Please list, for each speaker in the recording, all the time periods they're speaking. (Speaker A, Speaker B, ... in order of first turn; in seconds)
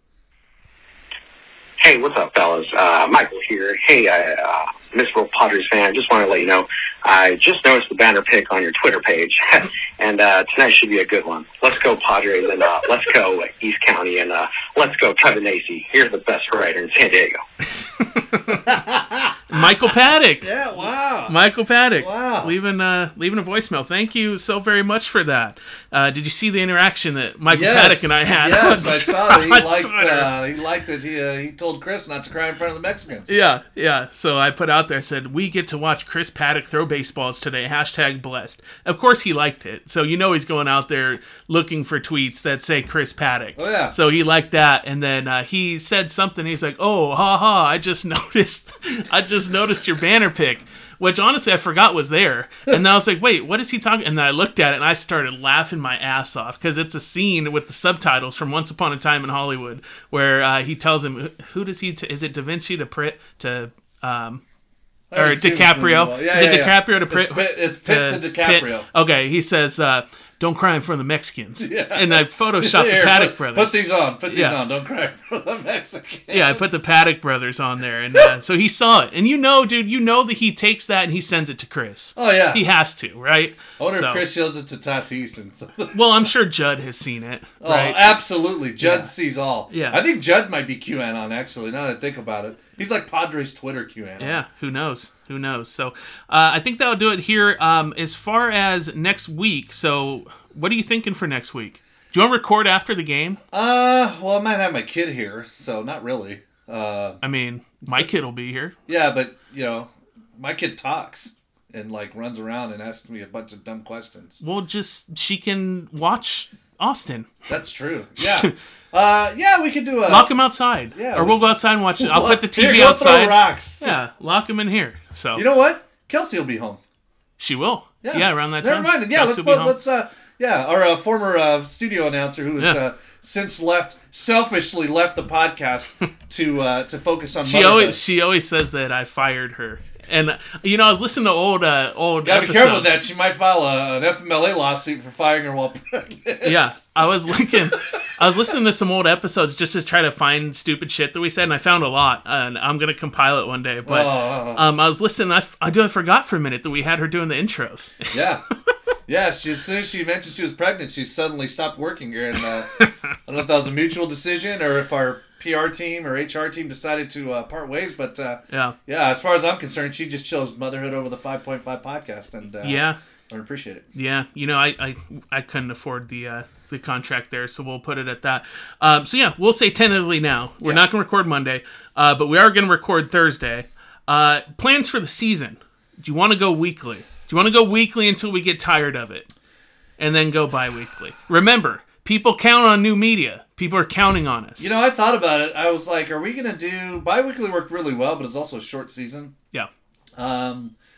Speaker A: 1.8-17.4
Speaker B: 17.7-18.6, 19.5-20.5, 21.3-30.3, 33.3-64.4, 65.1-74.6, 76.3-84.2, 85.9-88.2, 88.8-89.1, 89.7-90.0, 94.2-103.4, 107.2-108.7, 114.4-117.4, 118.2-118.5, 120.1-125.4, 127.4-129.8, 137.4-142.9, 146.4-158.2, 168.5-168.8, 172.6-173.0, 173.9-189.3, 190.0-194.7
Speaker C: 18.7-19.3, 20.4-21.4, 22.0-22.5, 27.5-33.3, 43.6-44.0, 65.1-68.9, 71.6-76.6, 82.2-82.6, 83.8-86.0, 87.6-94.4, 103.5-107.2, 108.9-114.4, 117.5-120.3, 120.9-121.5, 122.0-124.0, 125.3-126.8, 128.0-138.0, 142.2-146.8, 147.5-147.8, 153.9-154.6, 158.1-158.4, 159.1-162.7, 163.3-173.9, 194.6-199.3, 200.2-200.8